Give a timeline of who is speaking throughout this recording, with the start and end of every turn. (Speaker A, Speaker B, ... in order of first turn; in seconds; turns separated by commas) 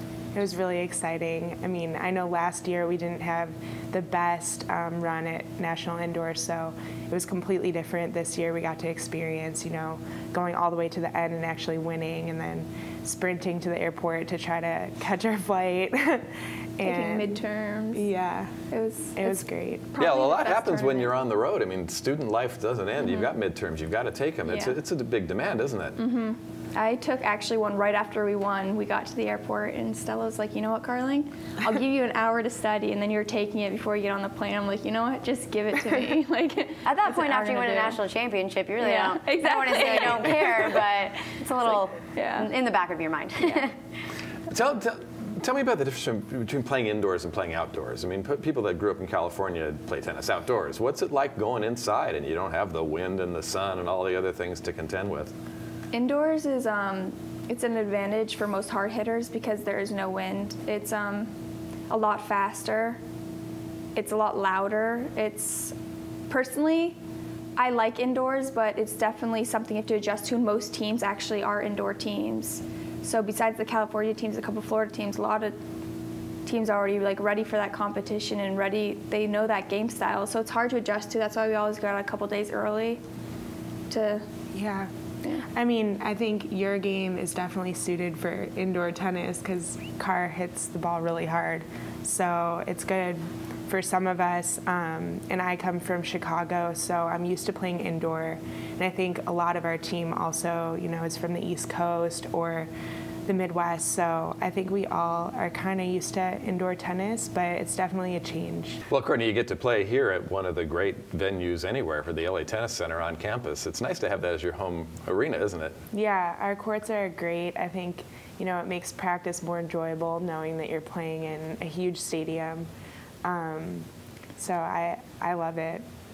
Speaker A: 0.3-17.4, Speaker B: 16.8-18.1, Speaker A: 17.9-18.5, Speaker B: 18.7-21.1, Speaker A: 19.1-20.0, Speaker C: 20.0-26.0, Speaker B: 23.0-23.3, Speaker B: 24.5-24.8, Speaker B: 26.0-38.0, Speaker D: 36.8-43.8, Speaker B: 38.8-40.9, Speaker B: 41.7-42.5, Speaker C: 44.5-55.3, Speaker B: 55.9-61.3, Speaker B: 61.9-63.0, Speaker B: 64.0-65.8, Speaker B: 66.3-67.0, Speaker B: 67.6-75.6, Speaker B: 76.5-83.0, Speaker B: 83.9-84.3, Speaker A: 84.5-84.9, Speaker A: 85.4-102.7, Speaker A: 103.3-108.8, Speaker C: 108.9-115.8, Speaker A: 115.9-122.7, Speaker A: 123.2-125.8